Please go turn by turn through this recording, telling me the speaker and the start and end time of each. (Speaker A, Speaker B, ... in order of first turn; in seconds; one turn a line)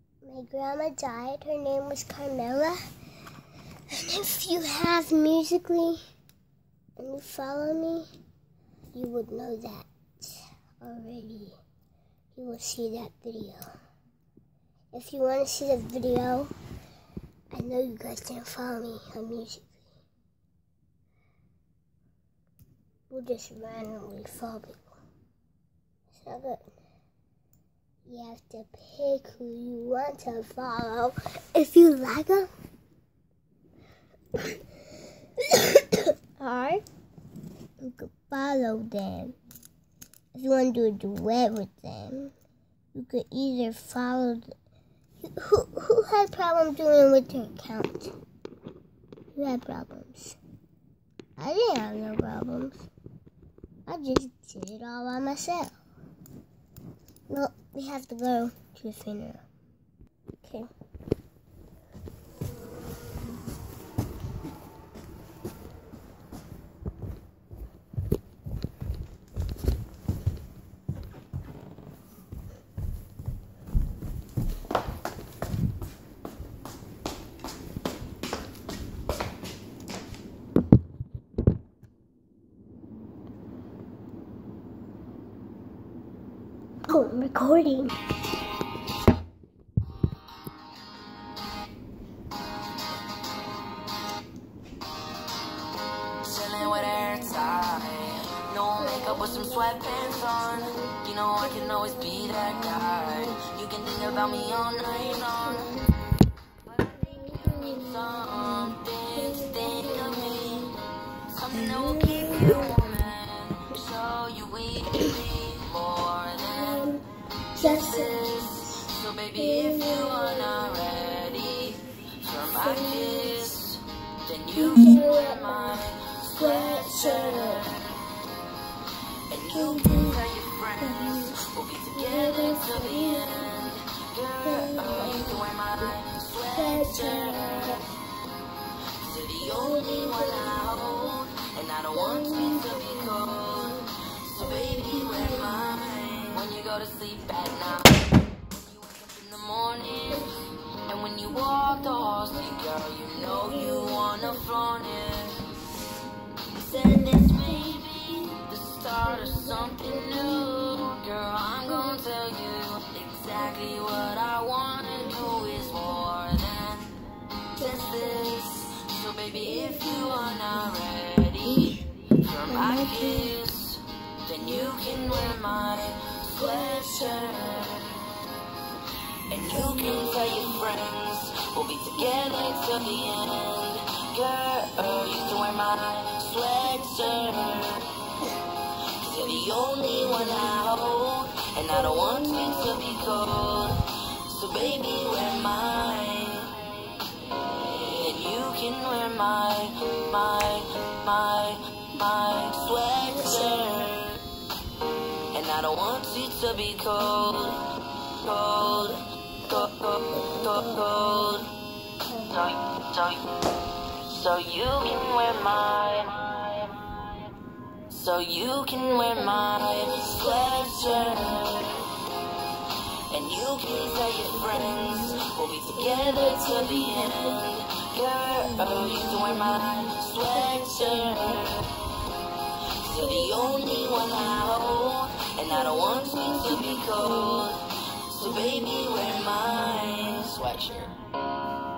Speaker A: 0.2-2.8
Speaker A: 3.9-6.0
Speaker A: 7.0-8.1
Speaker A: 8.9-11.6
Speaker A: 12.3-13.7
Speaker A: 14.9-16.5
Speaker A: 17.5-19.9
Speaker A: 23.1-24.9
Speaker A: 26.1-26.6
Speaker A: 28.1-32.5
Speaker A: 35.5-36.8
Speaker A: 37.8-39.4
Speaker A: 40.3-42.3
Speaker A: 42.9-44.5
Speaker A: 45.3-48.1
Speaker A: 49.3-50.4
Speaker A: 51.4-52.9
Speaker A: 53.9-55.8
Speaker A: 57.3-59.4
Speaker A: 60.4-60.7
Speaker A: 86.9-88.0
Speaker B: 96.2-105.8
Speaker A: 98.8-100.9
Speaker A: 104.3-105.9
Speaker B: 107.0-117.0
Speaker A: 107.3-108.5
Speaker A: 109.2-110.7
Speaker A: 111.7-112.9
Speaker A: 116.5-117.0
Speaker B: 117.5-128.0
Speaker A: 117.5-118.8
Speaker A: 119.4-120.5
Speaker A: 122.6-123.4
Speaker A: 124.6-125.8
Speaker A: 126.3-127.6
Speaker B: 129.3-137.9
Speaker A: 129.5-130.2
Speaker A: 130.8-131.4
Speaker A: 131.9-133.5
Speaker A: 134.4-135.4
Speaker A: 136.5-137.9
Speaker B: 139.0-150.3
Speaker A: 139.5-140.8
Speaker A: 142.0-143.1
Speaker B: 150.8-155.4
Speaker A: 153.5-154.1
Speaker B: 156.5-167.0
Speaker B: 167.5-178.0
Speaker B: 179.3-187.9
Speaker B: 189.0-196.6
Speaker B: 197.4-204.2
Speaker B: 205.3-211.5
Speaker B: 212.3-213.3
Speaker B: 214.1-216.7
Speaker B: 217.9-221.9
Speaker B: 223.1-231.8
Speaker B: 232.8-240.9